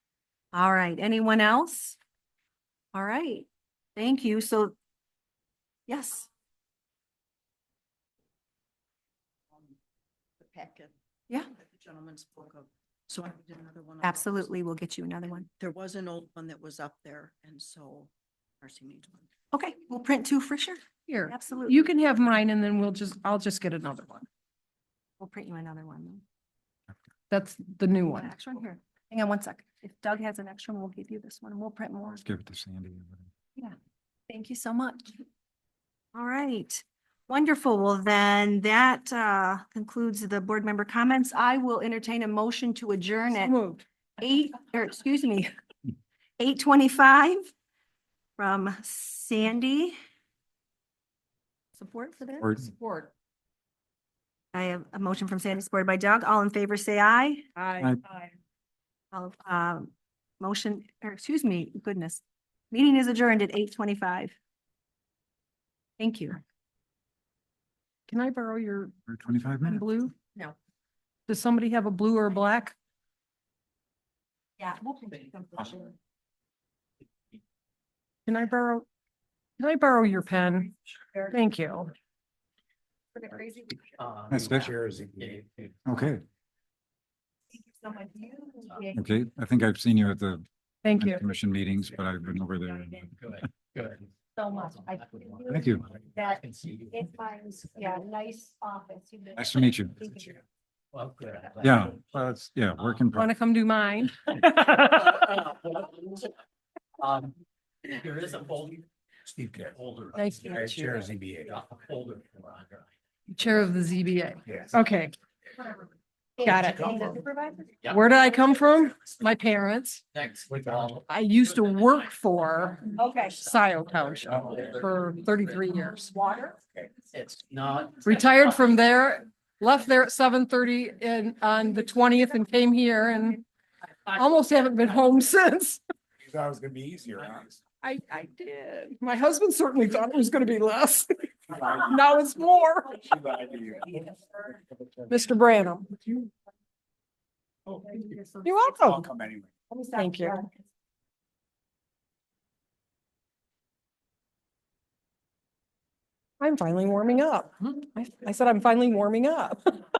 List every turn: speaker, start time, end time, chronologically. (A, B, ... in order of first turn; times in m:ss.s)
0:00.5-0:02.0 A
0:02.9-0:04.8 A
0:05.9-0:06.3 A
0:10.4-0:10.9 B
0:11.6-0:14.5 B
0:14.0-0:15.5 A
0:15.6-0:19.3 B
0:19.5-0:21.8 A
0:21.1-0:24.3 C
0:25.2-0:26.2 A
0:27.3-0:28.3 C
0:28.1-0:32.2 A
0:32.1-0:33.3 D
0:34.3-0:35.2 A
0:36.1-0:43.6 A
0:43.3-0:43.9 C
0:44.2-0:45.5 A
0:46.4-0:47.5 A
0:48.4-0:50.0 A
0:51.8-0:52.6 A
0:52.4-0:52.7 D
0:52.7-0:53.1 C
0:54.5-0:57.5 A
0:57.6-0:58.3 C
0:59.1-1:04.4 A
1:06.0-1:06.4 A
1:08.1-1:09.0 C
1:09.1-1:09.8 D
1:09.6-1:10.1 C
1:11.3-1:12.8 C
1:14.6-1:16.0 A
1:18.3-1:18.9 C
1:19.6-1:20.8 C
1:21.3-1:21.9 C
1:23.2-1:23.8 A
1:24.0-1:25.8 E
1:24.3-1:24.8 D
1:24.8-1:25.4 F
1:25.8-1:26.2 D
1:27.5-1:29.0 A
1:28.9-1:33.3 D
1:30.8-1:31.2 C
1:33.1-1:37.1 E
1:34.4-1:40.4 A
1:35.5-1:35.9 D
1:39.4-1:40.0 D
1:40.9-1:42.0 E
1:41.6-1:43.3 D
1:43.1-1:45.3 C
1:45.1-1:46.2 E
1:47.0-1:47.3 E
1:47.8-1:48.8 E
1:49.3-1:49.7 F
1:49.4-1:50.8 E
1:50.2-1:51.1 C
1:50.5-1:51.6 F
1:51.4-1:52.9 E
1:53.3-1:55.1 C
1:56.4-1:57.7 A
1:56.4-1:57.2 C
1:57.9-2:00.0 C
2:00.1-2:01.0 E
2:01.1-2:06.6 C
2:03.0-2:03.4 A
2:04.3-2:04.8 E
2:07.1-2:08.7 E
2:08.0-2:13.4 C
2:14.1-2:15.8 C
2:16.2-2:17.6 F
2:17.8-2:23.0 C
2:21.5-2:21.9 F
2:23.0-2:24.2 F
2:25.1-2:26.0 C
2:27.7-2:29.5 F
2:28.4-2:29.1 C
2:29.7-2:30.4 C
2:29.9-2:30.4 A
2:36.4-2:39.8 C